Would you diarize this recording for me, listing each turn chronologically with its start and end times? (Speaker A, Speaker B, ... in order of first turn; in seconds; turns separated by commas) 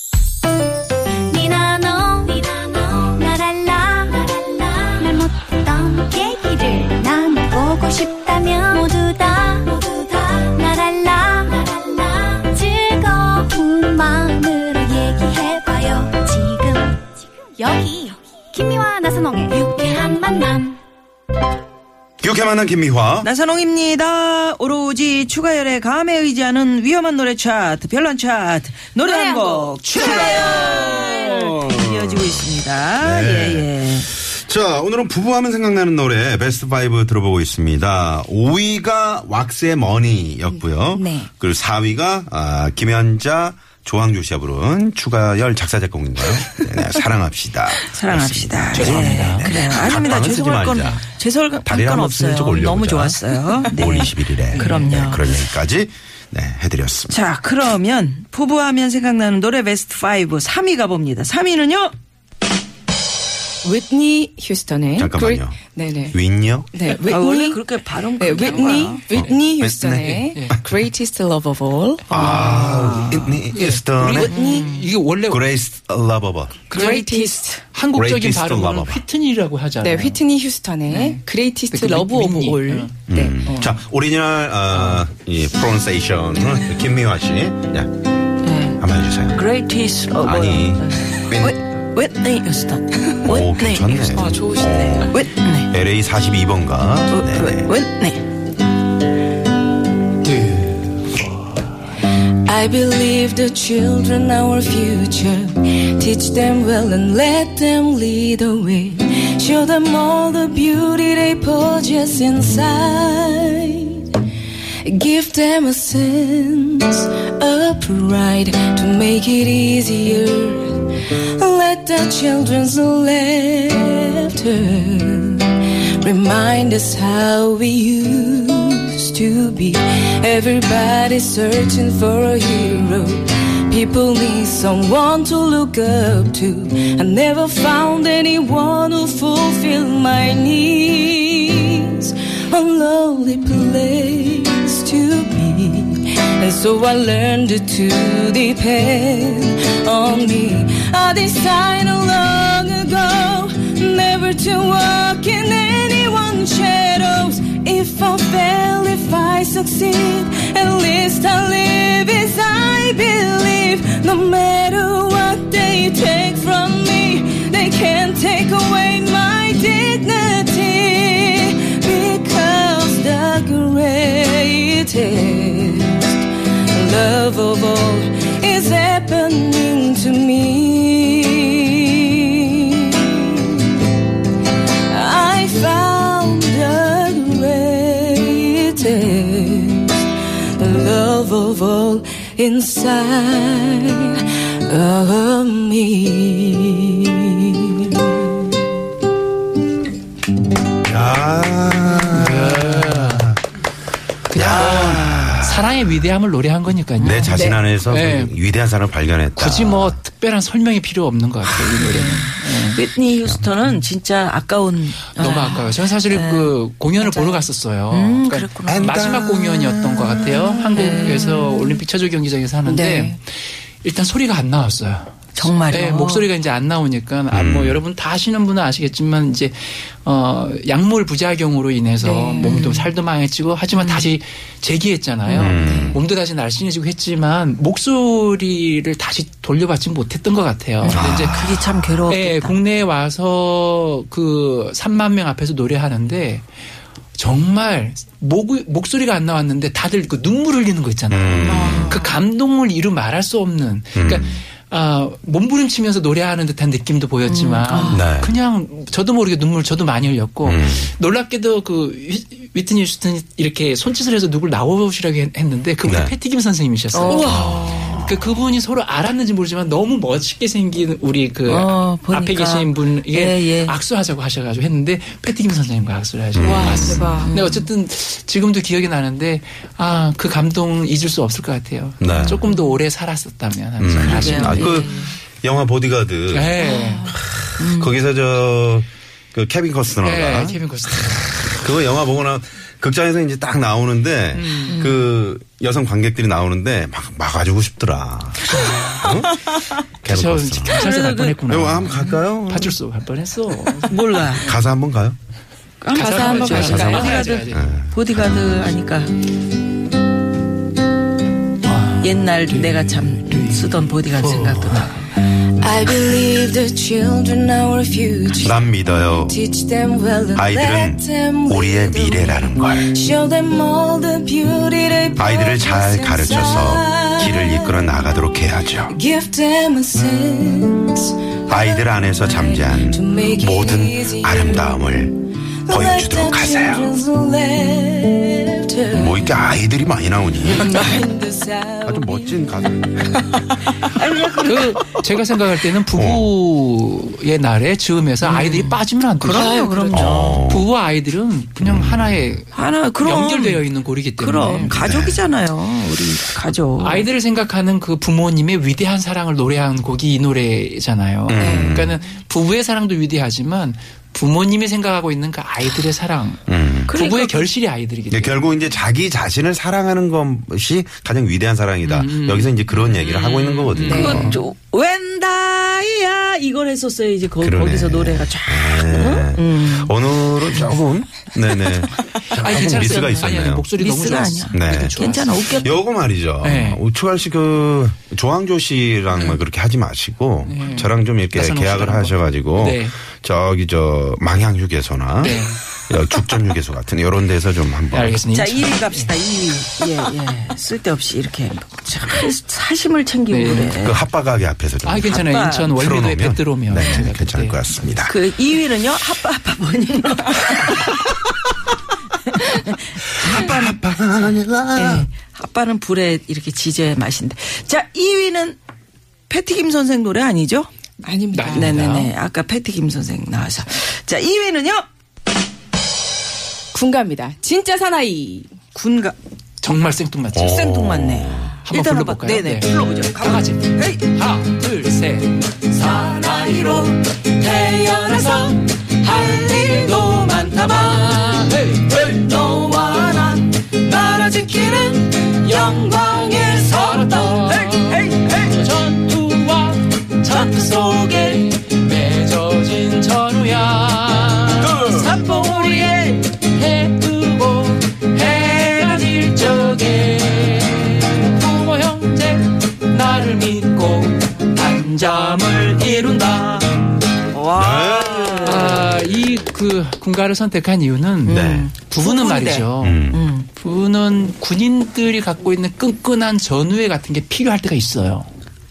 Speaker A: 1.3-20.8, Speaker B: 22.2-23.3, Speaker C: 23.2-34.1, Speaker A: 29.1-29.5, Speaker B: 29.9-51.1, Speaker C: 47.9-55.4, Speaker D: 48.7-50.0, Speaker B: 51.6-57.2, Speaker C: 57.1-61.9, Speaker E: 63.6-67.6, Speaker B: 65.0-65.6, Speaker B: 66.1-66.7, Speaker C: 67.0-69.0, Speaker E: 68.2-73.1, Speaker B: 69.1-70.3, Speaker D: 70.1-70.5, Speaker B: 72.1-74.3, Speaker D: 72.1-75.5, Speaker C: 72.2-72.8, Speaker E: 74.2-74.7, Speaker B: 75.2-76.6, Speaker D: 76.7-80.2, Speaker E: 76.7-77.6, Speaker B: 77.9-79.0, Speaker E: 79.8-83.4, Speaker D: 80.9-81.2, Speaker D: 81.7-83.8, Speaker B: 83.1-87.9, Speaker D: 84.7-85.0, Speaker C: 88.4-88.8, Speaker B: 88.8-89.4, Speaker C: 89.3-94.3, Speaker B: 90.1-91.6, Speaker B: 93.2-97.7, Speaker E: 94.1-95.2, Speaker C: 95.1-95.7, Speaker C: 97.1-98.2, Speaker D: 100.2-101.7, Speaker E: 102.4-114.1, Speaker E: 114.8-176.1, Speaker E: 176.7-183.5, Speaker E: 184.9-198.0, Speaker B: 200.8-203.4, Speaker D: 202.1-203.3, Speaker B: 204.3-205.9, Speaker D: 204.3-208.3, Speaker C: 204.4-205.3, Speaker B: 207.0-210.0, Speaker E: 207.3-207.6, Speaker D: 209.3-212.8, Speaker B: 211.4-212.0, Speaker C: 211.8-218.9, Speaker B: 213.2-213.5, Speaker D: 215.1-223.2, Speaker B: 218.7-220.6, Speaker C: 220.8-221.6, Speaker E: 222.6-223.2, Speaker D: 223.8-241.5, Speaker C: 225.3-226.3, Speaker B: 227.3-227.8, Speaker E: 232.0-232.7, Speaker C: 232.4-232.9, Speaker C: 233.7-234.1, Speaker B: 235.3-236.0, Speaker E: 235.5-236.0, Speaker C: 240.8-242.6, Speaker B: 240.9-242.0, Speaker D: 242.1-246.5, Speaker D: 247.1-284.9, Speaker B: 251.1-251.9, Speaker E: 251.4-252.2, Speaker C: 251.5-252.0, Speaker B: 253.9-254.4, Speaker E: 257.5-258.0, Speaker B: 257.9-258.4, Speaker B: 260.4-260.9, Speaker B: 265.8-266.1, Speaker C: 266.9-267.3, Speaker E: 267.0-267.9, Speaker B: 267.3-268.4, Speaker C: 271.4-273.7, Speaker B: 276.3-277.0, Speaker E: 276.4-277.3, Speaker C: 277.2-277.7, Speaker B: 282.0-282.5, Speaker C: 282.1-282.6, Speaker B: 283.8-300.9, Speaker C: 284.0-285.1, Speaker D: 286.3-287.1, Speaker E: 286.6-287.1, Speaker C: 287.6-287.9, Speaker D: 290.0-291.6, Speaker D: 294.3-294.8, Speaker C: 294.7-295.1, Speaker D: 300.1-304.0, Speaker C: 300.7-301.4, Speaker B: 301.5-302.8, Speaker C: 303.9-304.5, Speaker B: 304.3-305.1, Speaker C: 305.8-309.1, Speaker D: 305.9-307.7, Speaker E: 305.9-307.2, Speaker B: 306.4-308.8, Speaker D: 311.7-314.9, Speaker C: 312.0-315.1, Speaker E: 315.3-327.9, Speaker B: 318.3-319.4, Speaker B: 320.3-322.9, Speaker B: 325.1-329.0, Speaker E: 328.9-334.8, Speaker B: 331.5-337.0, Speaker E: 335.6-339.4, Speaker B: 338.9-340.9, Speaker E: 340.4-343.6, Speaker B: 341.8-343.2, Speaker C: 343.9-344.8, Speaker D: 344.4-354.7, Speaker B: 345.9-346.3, Speaker C: 348.2-350.5, Speaker E: 349.3-350.1, Speaker B: 349.9-350.7, Speaker B: 351.6-352.2, Speaker C: 352.5-357.1, Speaker B: 354.7-355.3, Speaker D: 356.8-368.4, Speaker B: 361.3-362.0, Speaker E: 361.4-361.9, Speaker B: 366.5-366.9, Speaker C: 366.9-367.5, Speaker B: 368.1-374.4, Speaker D: 371.8-374.4, Speaker E: 373.8-374.3, Speaker C: 373.9-380.7, Speaker B: 377.4-383.7, Speaker D: 382.4-385.8, Speaker C: 382.4-385.8, Speaker B: 384.5-385.0, Speaker B: 385.6-398.3, Speaker D: 386.4-386.8, Speaker D: 390.4-393.0, Speaker D: 395.2-395.6, Speaker D: 397.9-399.1, Speaker C: 398.3-404.0, Speaker D: 403.3-403.8, Speaker B: 403.8-408.2, Speaker D: 404.8-407.6, Speaker C: 405.2-405.7, Speaker C: 408.1-411.1, Speaker C: 412.3-413.8, Speaker B: 413.2-415.1, Speaker C: 414.7-418.6, Speaker C: 419.3-420.7, Speaker E: 421.0-421.8, Speaker D: 421.3-422.1, Speaker C: 421.5-424.8, Speaker E: 426.7-428.5, Speaker C: 428.7-429.1, Speaker D: 429.6-430.6, Speaker B: 430.3-431.6, Speaker C: 430.3-434.0, Speaker D: 431.6-443.4, Speaker C: 435.9-436.9, Speaker C: 437.9-438.5, Speaker C: 439.5-441.4, Speaker C: 441.9-448.6, Speaker D: 444.0-466.7, Speaker B: 454.6-455.0, Speaker C: 454.8-456.1, Speaker C: 467.3-468.9, Speaker B: 467.5-469.5, Speaker D: 468.4-478.3, Speaker C: 471.2-473.5, Speaker B: 471.3-471.7, Speaker B: 472.8-473.2